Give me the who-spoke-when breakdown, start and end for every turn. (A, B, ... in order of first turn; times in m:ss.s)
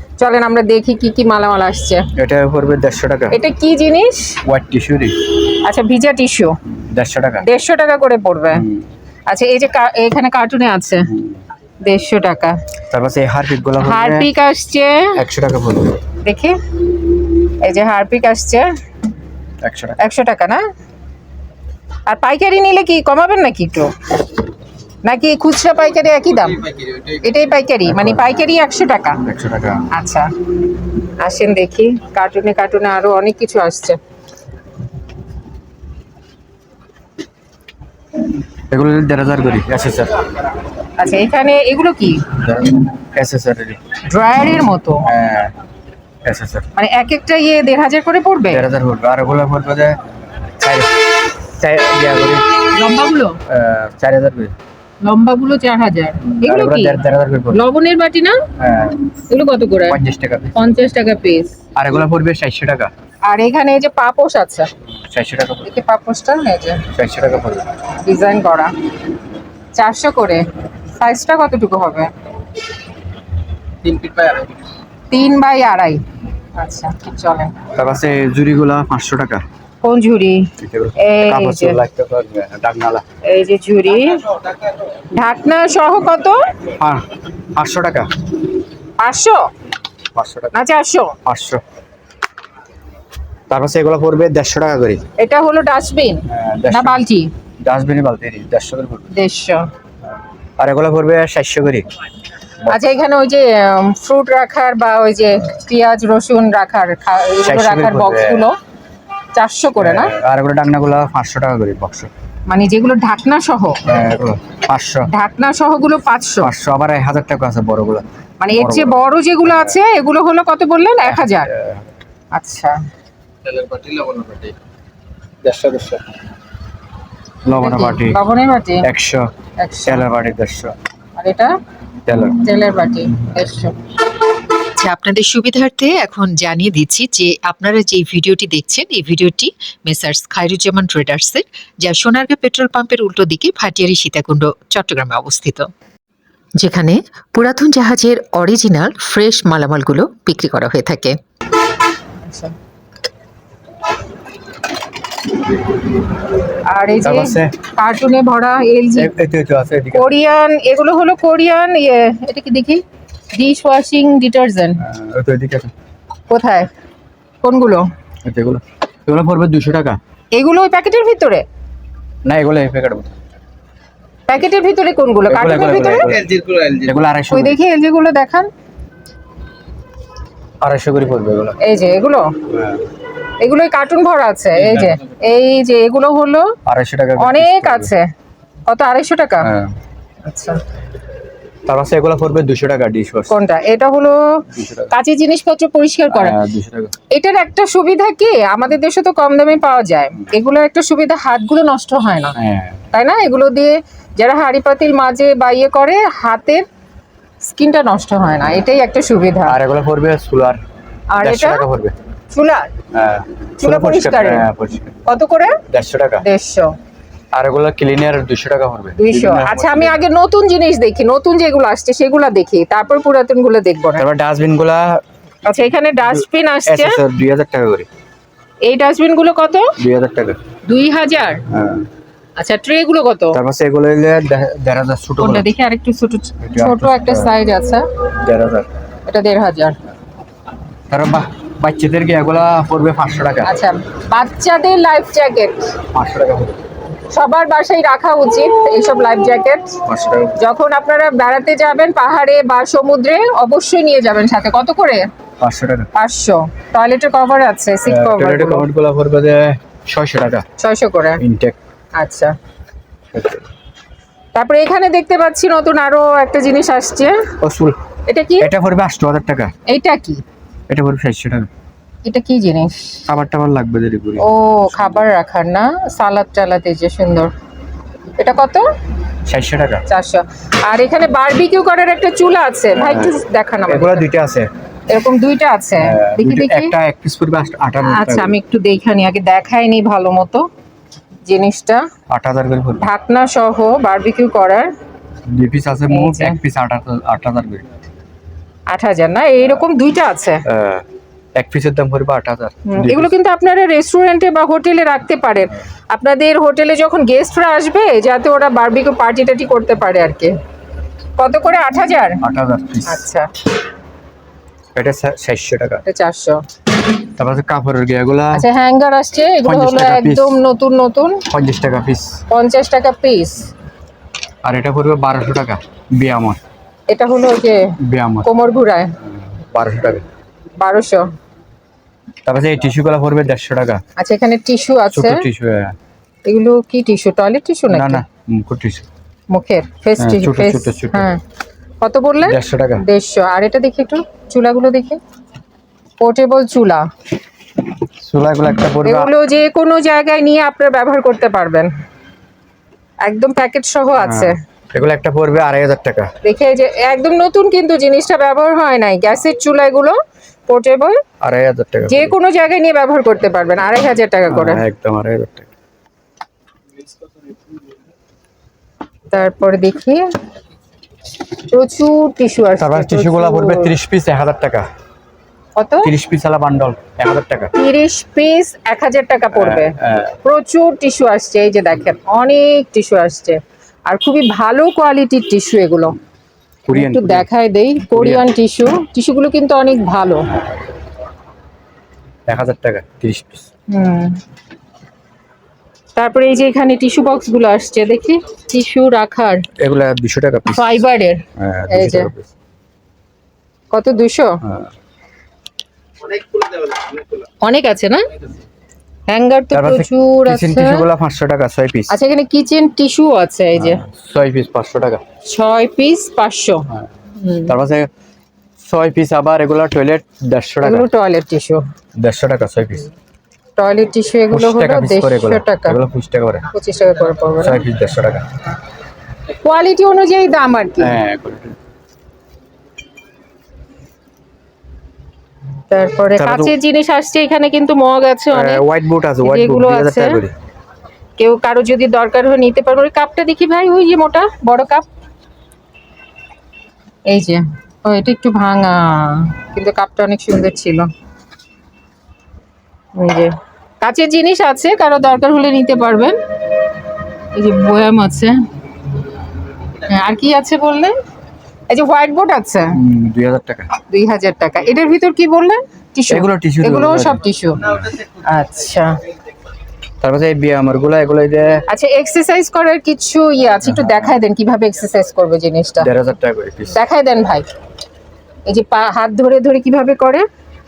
0:00.2-0:02.1 A
0:02.2-0:03.4 B
0:03.3-0:04.4 A
0:04.4-0:05.2 B
0:05.5-0:06.6 A
0:06.7-0:07.5 B
0:07.4-0:08.6 A
0:08.5-0:08.9 B
0:09.3-0:11.1 A
0:11.0-0:11.4 B
0:11.8-0:12.6 A
0:12.9-0:14.3 B
0:13.8-0:15.2 A
0:15.1-0:16.0 B
0:16.2-0:16.6 A
0:17.4-0:18.7 A
0:19.6-0:20.0 B
0:20.0-0:20.6 A
0:22.1-0:23.9 A
0:25.0-0:29.2 A
0:27.8-0:28.5 B
0:29.2-0:29.9 B
0:29.9-0:30.3 A
0:31.0-0:34.0 A
0:38.7-0:40.2 B
0:41.0-0:42.3 A
0:42.4-0:43.8 B
0:44.0-0:45.1 A
0:45.0-0:45.5 B
0:46.2-0:46.7 B
0:46.7-0:48.6 A
0:48.5-0:50.0 B
0:50.6-0:52.7 B
0:52.7-0:53.4 A
0:53.5-0:54.6 B
0:55.0-0:58.5 A
0:56.3-0:57.6 B
0:58.6-0:59.1 B
0:59.3-1:00.0 A
0:59.9-1:00.7 B
1:00.5-1:01.6 A
1:01.7-1:02.9 B
1:03.2-1:04.7 A
1:04.9-1:05.7 B
1:05.6-1:06.9 A
1:06.9-1:07.8 B
1:08.0-1:08.7 A
1:09.7-1:12.1 A
1:13.8-1:14.5 B
1:15.1-1:16.0 A
1:16.6-1:17.6 A
1:17.7-1:19.4 B
1:19.8-1:21.8 A
1:20.6-1:23.0 B
1:23.2-1:24.3 A
1:25.1-1:26.5 A
1:26.6-1:28.2 B
1:29.0-1:29.5 A
1:30.1-1:30.5 B
1:30.5-1:31.2 A
1:31.2-1:31.6 B
1:33.5-1:35.0 B
1:35.2-1:37.3 A
1:36.3-1:37.0 B
1:37.6-1:39.1 B
1:39.1-1:39.7 A
1:40.6-1:41.9 B
1:42.7-1:48.6 A
1:47.4-1:48.5 B
1:49.3-1:50.1 A
1:49.8-1:52.1 B
1:52.5-1:53.8 A
1:53.8-1:55.1 B
1:55.1-1:56.5 A
1:56.4-1:59.8 B
1:58.4-2:01.5 A
2:01.0-2:01.9 B
2:02.3-2:02.8 A
2:03.4-2:04.5 B
2:05.4-2:06.1 B
2:07.4-2:08.2 B
2:07.5-2:08.9 A
2:08.8-2:09.3 B
2:09.6-2:10.0 A
2:09.8-2:10.8 B
2:11.2-2:11.6 A
2:12.0-2:12.4 B
2:12.4-2:13.8 A
2:14.8-2:25.7 C
2:26.6-2:31.2 C
2:32.2-2:32.5 A
2:36.7-2:39.1 A
2:37.0-2:37.6 B
2:38.9-2:40.1 B
2:39.9-2:44.8 A
2:44.8-2:45.7 B
2:46.3-2:46.7 A
2:47.4-2:47.9 A
2:48.2-2:50.0 B
2:50.3-2:51.4 A
2:52.2-2:53.2 B
2:54.3-2:56.2 A
2:55.3-2:57.6 B
2:57.3-2:58.5 A
3:00.6-3:01.6 B
3:01.6-3:02.4 A
3:02.5-3:02.8 B
3:03.4-3:06.5 A
3:06.6-3:07.9 B
3:07.2-3:08.1 A
3:08.7-3:09.5 A
3:09.4-3:09.7 B
3:10.2-3:10.6 A
3:11.6-3:13.4 B
3:13.3-3:16.4 A
3:14.5-3:14.9 B
3:16.1-3:17.0 B
3:17.1-3:22.4 A
3:22.3-3:22.8 B
3:22.9-3:26.6 A
3:27.4-3:29.6 A
3:29.4-3:30.6 B
3:31.1-3:31.6 A
3:31.2-3:32.0 B
3:32.3-3:32.7 A
3:32.9-3:35.0 B
3:33.6-3:34.4 A
3:35.0-3:35.6 A
3:35.7-3:36.2 B
3:36.2-3:36.8 A
3:37.3-3:40.0 B
3:39.0-3:44.0 A
3:44.0-3:45.0 B
3:45.4-3:47.0 A
3:46.6-3:47.9 B
3:48.6-3:49.7 A
3:49.8-3:50.4 B
3:50.6-3:51.4 A
3:51.5-3:51.9 B
3:52.4-3:53.4 A
3:53.3-3:55.5 B
3:55.2-3:57.9 A
3:56.4-3:57.3 B
3:58.2-3:58.7 B
3:59.1-3:59.8 A
4:00.9-4:03.5 B
4:03.4-4:05.8 A
4:05.9-4:06.6 B
4:07.1-4:09.8 A
4:09.9-4:10.3 B
4:10.4-4:15.1 A
4:15.4-4:15.9 B
4:15.9-4:18.6 A
4:17.8-4:20.5 B
4:20.6-4:21.2 A
4:21.2-4:21.6 B
4:22.0-4:22.4 A
4:23.1-4:23.4 B
4:24.3-4:27.3 A
4:27.4-4:27.8 B
4:28.0-4:28.5 A
4:28.4-4:29.5 B
4:29.7-4:30.2 A
4:30.7-4:31.5 B
4:32.0-4:33.0 A
4:33.0-4:35.0 B
4:34.2-4:37.3 A
4:38.2-4:38.7 A
4:39.2-4:39.8 B
4:39.9-4:44.0 A
4:42.7-4:44.5 B
4:44.9-4:46.7 A
4:45.8-4:48.4 B
4:47.8-4:50.5 A
4:51.2-4:51.9 A
4:52.1-4:52.8 B
4:52.8-4:54.7 A
4:55.2-4:57.7 B
4:55.9-4:56.4 A
4:58.7-5:00.4 A
5:00.4-5:03.1 B
5:02.6-5:10.4 A
5:11.2-5:12.2 A
5:12.2-5:13.0 B
5:12.8-5:13.3 A
5:14.7-5:15.8 B
5:15.8-5:16.4 A
5:17.2-5:18.4 B
5:18.3-5:21.3 A
5:19.4-5:20.4 B
5:21.3-5:22.2 B
5:22.3-5:23.5 A
5:24.4-5:26.4 B
5:26.9-5:29.0 A
5:27.8-5:28.3 B
5:29.0-5:30.0 B
5:30.6-5:31.1 A
5:32.2-5:33.8 B
5:34.0-5:35.2 A
5:34.9-5:35.8 B
5:36.2-5:38.0 A
5:37.7-5:38.8 B
5:39.3-5:41.2 A
5:40.0-5:41.1 B
5:41.8-5:45.0 A
5:42.2-5:42.8 B
5:46.0-5:46.9 A
5:48.0-5:49.1 B
5:48.8-5:51.7 A
5:53.0-5:54.4 A
5:54.0-5:56.1 B
5:56.2-6:01.0 A
6:01.2-6:02.1 B
6:01.9-6:04.6 A
6:04.3-6:05.5 B
6:09.1-6:10.1 A
6:11.4-6:13.7 A
6:12.6-6:14.7 B
6:15.6-6:15.9 A
6:15.8-6:17.5 B
6:17.5-6:26.0 A
6:19.3-6:20.2 B
6:26.7-6:27.3 B
6:26.7-6:30.3 A
6:27.9-6:28.3 B
6:32.3-6:33.5 B
6:33.7-6:34.2 A
6:36.0-6:39.5 A
6:39.6-6:40.8 B
6:40.5-6:42.1 A
6:41.4-6:42.3 B
6:43.7-6:44.4 A
6:44.4-6:44.7 B
6:47.4-6:48.1 A
6:49.1-6:50.8 A
6:49.5-6:51.9 B
6:51.9-6:53.8 A
6:53.6-6:55.0 B
6:55.2-6:57.5 A
6:57.4-6:57.9 B
6:58.6-7:00.9 B
7:00.6-7:01.6 A
7:02.0-7:02.9 B
7:03.6-7:05.8 A
7:04.3-7:06.4 B
7:06.5-7:07.6 A
7:07.4-7:08.3 B
7:09.4-7:11.0 A
7:10.8-7:11.6 B
7:15.7-7:18.6 A
7:16.2-7:16.5 B
7:18.3-7:20.3 B
7:19.2-7:20.2 A
7:21.2-7:24.9 A
7:27.1-7:30.9 A
7:32.9-7:36.2 A
7:37.3-7:38.5 A
7:39.8-7:41.0 A
7:41.7-7:42.8 A
7:42.7-7:43.7 B
7:43.9-7:49.0 A
7:46.1-7:48.0 B
7:50.0-7:51.6 B
7:51.7-7:55.9 A
7:53.6-7:54.2 B
7:55.8-7:56.8 B
7:56.7-7:57.5 A
7:58.5-8:00.2 A